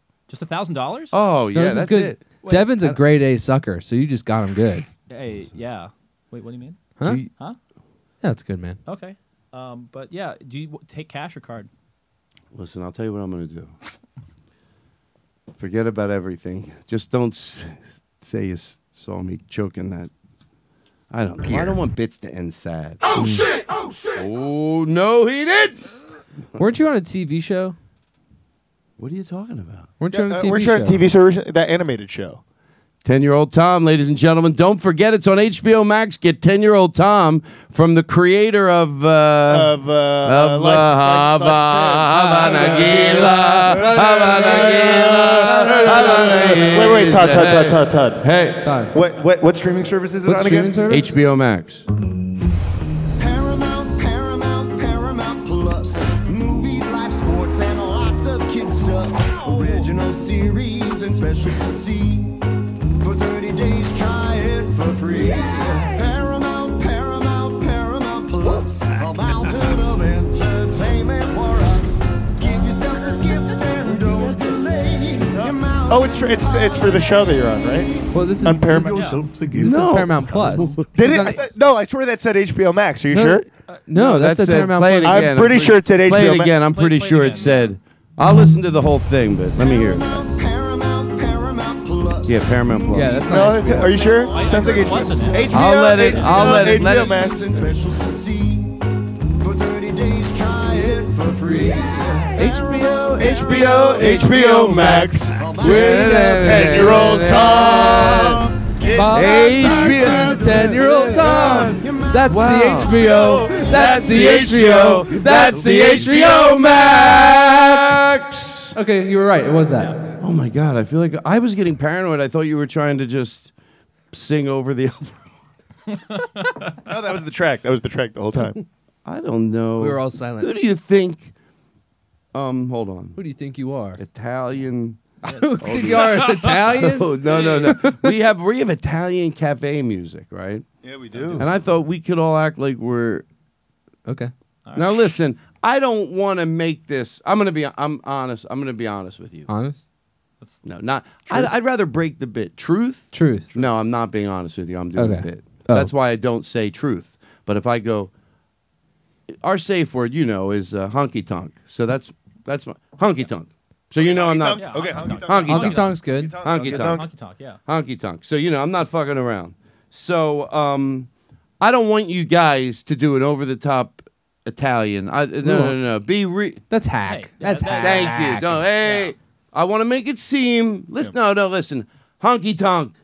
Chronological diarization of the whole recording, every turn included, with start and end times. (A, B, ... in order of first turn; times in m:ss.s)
0:00.3-0:01.2 A
0:01.1-0:03.0 B
0:01.5-0:04.9 C
0:02.4-0:02.7 A
0:05.1-0:06.8 A
0:07.0-0:07.2 C
0:07.0-0:07.3 B
0:08.2-0:08.8 C
0:08.8-0:11.7 A
0:12.5-0:13.7 B
0:15.6-0:20.1 B
0:21.1-0:23.0 B
0:23.1-0:23.5 C
0:24.1-0:25.9 B
0:26.6-0:27.8 C
0:29.0-0:29.9 B
0:30.0-0:31.0 C
0:30.1-0:32.4 D
0:33.0-0:48.7 B
0:39.5-0:48.3 D
0:45.6-0:46.7 C
0:48.6-0:48.9 C
0:48.9-0:51.0 D
0:50.2-0:51.1 C
0:50.9-0:51.8 B
0:53.2-1:02.4 E
0:59.2-0:59.9 A
1:03.0-1:18.1 E
1:15.3-1:19.3 D
1:18.1-1:21.5 C
1:18.9-1:19.2 A
1:19.5-1:20.9 B
1:20.9-1:23.5 D
1:23.1-1:25.4 C
1:23.9-1:30.2 B
1:25.0-1:26.6 D
1:26.7-1:27.7 A
1:29.6-1:35.5 E
1:32.2-1:33.8 B
1:32.9-1:34.1 C
1:33.2-1:37.7 D
1:34.3-1:36.6 A
1:35.5-1:37.3 B
1:36.1-1:38.8 E
1:39.4-1:44.0 E
1:42.4-1:43.6 C
1:43.2-1:51.3 D
1:43.3-1:48.4 B
1:45.3-1:45.8 E
1:45.6-1:58.1 C
1:49.1-1:53.1 B
1:51.8-1:54.3 E
1:53.0-1:54.9 D
1:53.7-1:58.8 B
1:58.7-2:00.0 C
2:00.2-2:03.5 B
2:04.1-2:05.3 B
2:06.1-2:06.7 A
2:06.8-2:08.6 D
2:09.0-2:11.3 B
2:09.8-2:10.5 C
2:12.3-2:13.2 B
2:13.2-2:14.0 C
2:14.0-2:15.0 B
2:15.2-2:18.1 C
2:15.2-2:17.8 A
2:15.6-2:20.6 B
2:20.8-2:21.5 D
2:21.3-2:23.2 B
2:24.0-2:24.3 C
2:24.7-2:29.5 B
2:29.5-2:29.8 C
2:30.6-2:38.1 B
2:33.1-2:33.5 C
2:34.9-2:35.9 C
2:39.4-2:47.1 B
2:44.0-2:47.1 D
2:44.4-2:47.6 A
2:45.4-2:46.5 C
2:47.6-2:51.1 B
2:51.6-2:56.6 B
2:55.4-2:55.8 C
2:56.7-2:58.7 C
2:57.0-2:59.1 A
2:57.8-3:03.0 B